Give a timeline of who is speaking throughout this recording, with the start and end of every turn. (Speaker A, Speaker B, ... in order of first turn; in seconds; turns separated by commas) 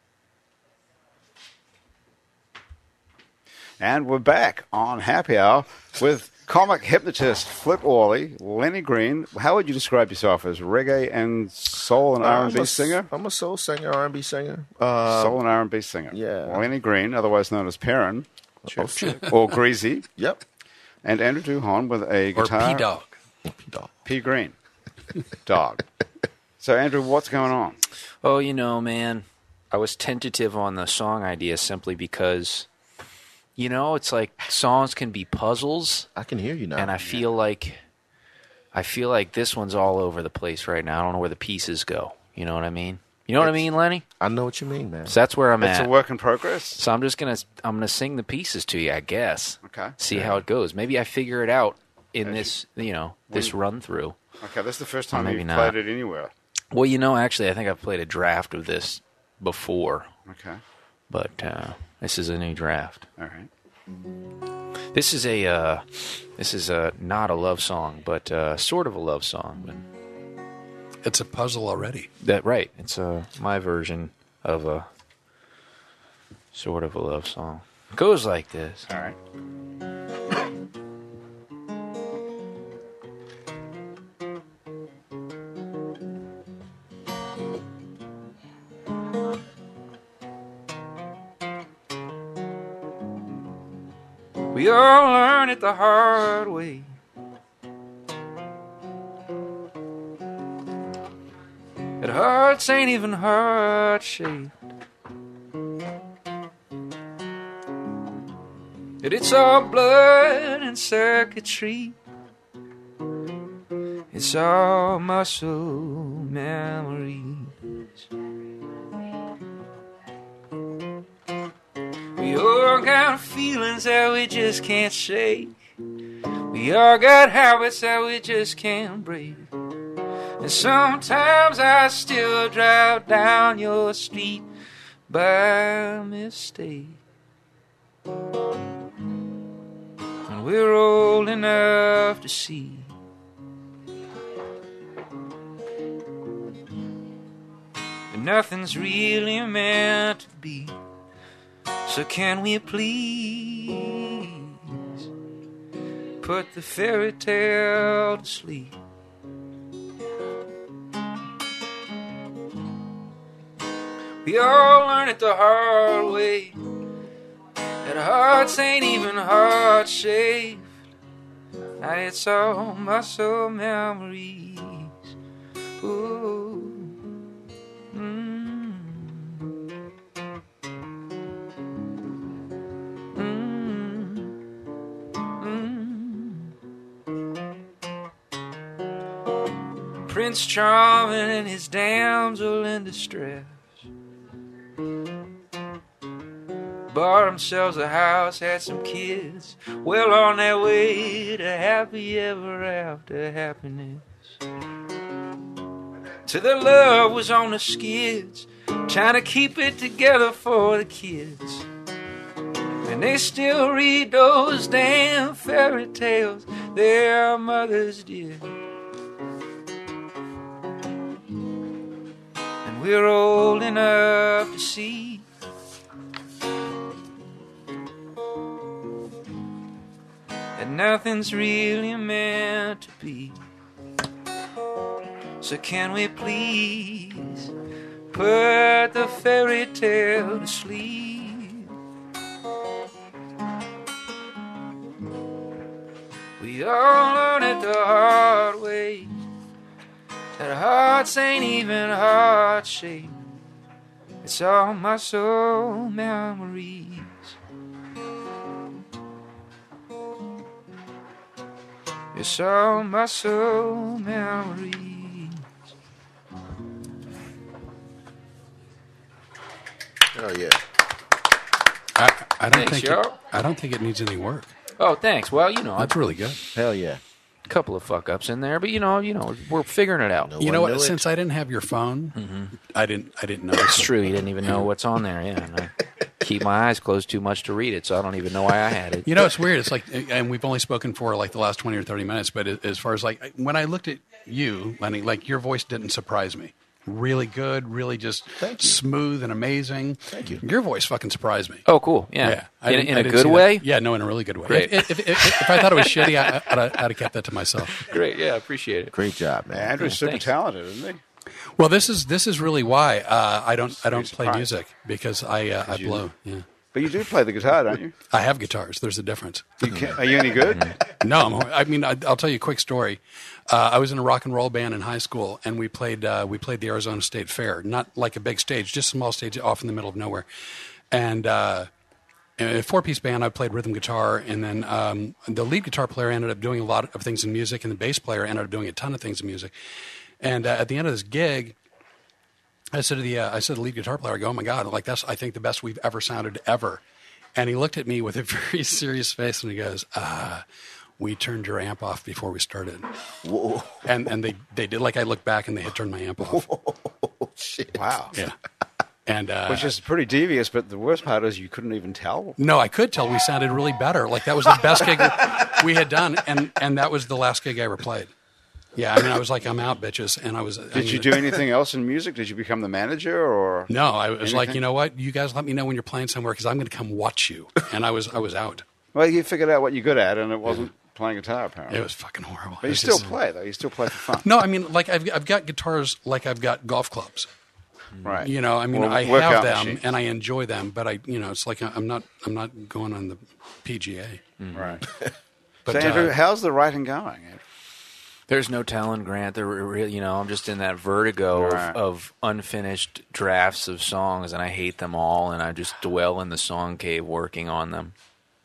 Speaker A: 3.8-13.1, Speaker B: 12.2-15.4, Speaker A: 15.1-18.3, Speaker B: 16.1-16.6, Speaker B: 18.7-19.3, Speaker A: 18.8-20.1, Speaker B: 20.2-20.4, Speaker A: 21.0-22.9, Speaker C: 22.4-23.1, Speaker B: 23.5-23.9, Speaker A: 24.1-24.6, Speaker A: 25.4-25.9, Speaker A: 26.6-27.8, Speaker D: 28.2-32.7, Speaker D: 33.6-36.1, Speaker B: 36.2-37.0, Speaker D: 36.8-37.8, Speaker D: 38.7-44.0, Speaker B: 44.2-45.2, Speaker D: 45.1-45.9, Speaker A: 45.6-46.8, Speaker D: 46.8-54.2, Speaker A: 49.6-50.0, Speaker A: 52.2-52.5, Speaker A: 54.4-56.3, Speaker D: 55.1-55.8, Speaker D: 56.7-60.1, Speaker A: 60.3-60.6, Speaker D: 61.1-63.1, Speaker A: 63.2-63.5, Speaker D: 64.9-69.8, Speaker C: 71.0-72.1, Speaker D: 72.2-74.9, Speaker D: 76.5-78.9, Speaker A: 78.9-79.2, Speaker D: 94.5-96.9, Speaker D: 102.0-104.5, Speaker D: 109.0-112.0, Speaker D: 114.1-118.0, Speaker D: 122.2-125.5, Speaker D: 126.5-129.5, Speaker D: 130.4-134.5, Speaker D: 135.1-137.0, Speaker D: 140.3-142.9, Speaker D: 148.1-150.8, Speaker D: 151.8-155.1, Speaker D: 156.2-158.8, Speaker D: 164.2-166.7, Speaker D: 167.8-170.7, Speaker D: 171.8-175.1, Speaker D: 175.8-177.0, Speaker D: 177.9-179.4, Speaker D: 183.1-184.4, Speaker D: 185.4-186.5, Speaker D: 190.1-193.6, Speaker D: 196.9-204.1, Speaker D: 206.3-211.7, Speaker D: 212.8-218.6, Speaker D: 222.6-225.3, Speaker D: 230.6-233.4, Speaker D: 235.4-237.5, Speaker D: 238.1-241.7, Speaker D: 246.4-249.2, Speaker D: 250.4-253.2, Speaker D: 254.2-257.4, Speaker D: 262.1-265.4, Speaker B: 270.1-270.6, Speaker C: 272.0-274.5, Speaker D: 272.5-273.2, Speaker D: 274.8-275.9, Speaker C: 275.8-276.4, Speaker B: 276.5-277.0, Speaker D: 277.5-280.3, Speaker B: 280.2-281.1, Speaker C: 280.4-283.9, Speaker D: 282.2-282.5, Speaker D: 283.6-289.1, Speaker C: 289.1-301.6, Speaker B: 298.4-298.8, Speaker B: 300.1-300.4, Speaker D: 301.7-303.6, Speaker C: 302.2-307.9, Speaker D: 304.5-306.6, Speaker D: 307.8-308.9, Speaker B: 308.9-309.9, Speaker A: 309.5-311.0, Speaker D: 309.8-310.3, Speaker C: 311.6-316.5, Speaker A: 313.8-314.5, Speaker A: 315.7-316.0, Speaker A: 316.7-317.9, Speaker C: 318.1-319.7, Speaker A: 319.6-320.7, Speaker D: 320.5-320.7, Speaker C: 320.9-330.3, Speaker C: 330.9-331.7, Speaker C: 332.4-339.5, Speaker C: 340.2-341.6, Speaker C: 342.7-346.8, Speaker C: 347.4-350.4, Speaker C: 351.0-352.9, Speaker B: 353.2-353.9, Speaker C: 353.9-356.4, Speaker B: 356.2-357.8, Speaker A: 357.7-358.2, Speaker C: 359.1-359.7, Speaker A: 359.5-362.4, Speaker C: 362.4-368.1, Speaker C: 368.8-371.4, Speaker A: 370.7-374.6, Speaker C: 373.7-378.6, Speaker A: 378.9-381.8, Speaker C: 381.7-383.2, Speaker A: 382.6-384.3, Speaker C: 384.2-387.3, Speaker A: 388.0-389.8, Speaker C: 388.2-394.2, Speaker D: 394.4-394.8, Speaker A: 394.5-394.8, Speaker C: 395.7-396.1, Speaker A: 395.7-397.4, Speaker D: 398.3-407.9, Speaker A: 401.3-401.8